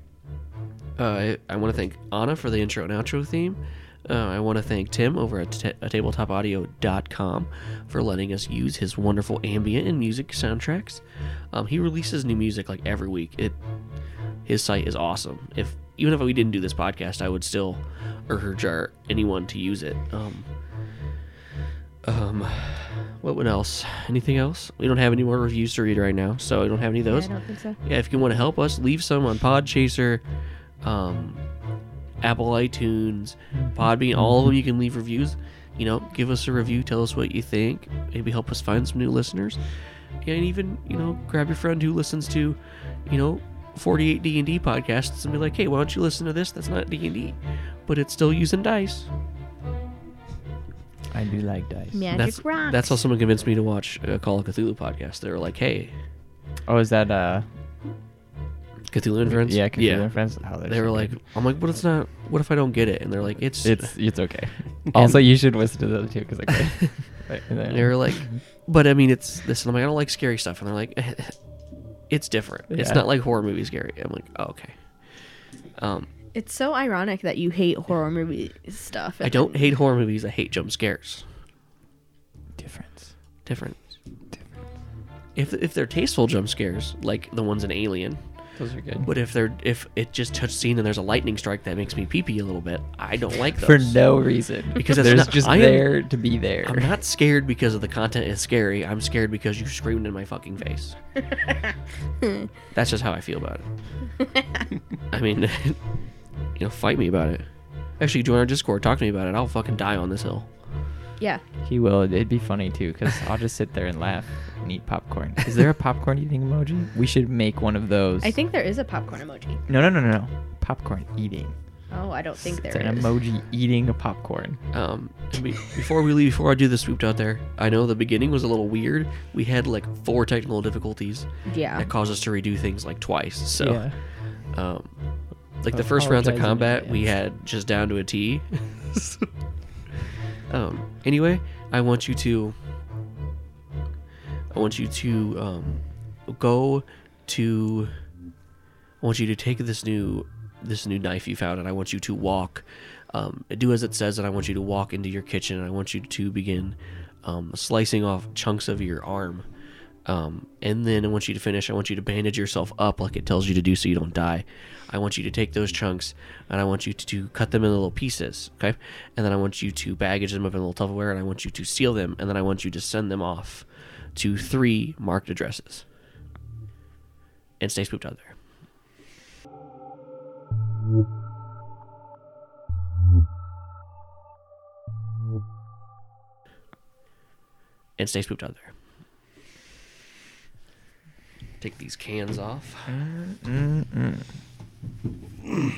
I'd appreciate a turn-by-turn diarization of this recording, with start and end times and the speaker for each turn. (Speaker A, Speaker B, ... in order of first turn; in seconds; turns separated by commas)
Speaker A: 1.0-13.6, Speaker A: 14.4-20.5, Speaker A: 22.0-30.2, Speaker B: 27.1-27.8, Speaker A: 30.8-31.4, Speaker A: 32.2-39.6, Speaker C: 33.5-34.5, Speaker A: 40.2-49.1, Speaker C: 51.1-52.1, Speaker B: 51.9-53.0, Speaker A: 52.1-56.0, Speaker C: 56.6-57.5, Speaker A: 58.9-63.9, Speaker C: 59.3-61.2, Speaker C: 63.6-68.4, Speaker A: 67.7-71.4, Speaker A: 72.1-76.1, Speaker C: 72.7-73.0, Speaker B: 76.3-79.6, Speaker A: 79.2-81.3, Speaker C: 82.6-83.1, Speaker A: 83.5-83.8, Speaker A: 85.3-88.2, Speaker C: 88.6-89.1, Speaker A: 89.0-94.0, Speaker C: 93.6-96.9, Speaker A: 94.8-96.1, Speaker A: 96.7-101.0, Speaker A: 102.7-103.7, Speaker A: 105.1-105.8, Speaker A: 106.6-110.6, Speaker C: 111.6-118.3, Speaker B: 118.2-119.6, Speaker C: 119.7-121.5, Speaker B: 121.9-123.1, Speaker C: 122.5-124.6, Speaker A: 124.7-134.9, Speaker B: 131.5-131.9, Speaker C: 133.6-134.0, Speaker A: 135.6-139.3, Speaker C: 135.7-137.1, Speaker A: 140.5-142.6, Speaker A: 144.5-147.9, Speaker A: 149.0-159.4, Speaker A: 160.1-175.9, Speaker A: 177.6-178.4, Speaker A: 188.0-188.7, Speaker A: 191.6-192.9, Speaker C: 192.9-194.3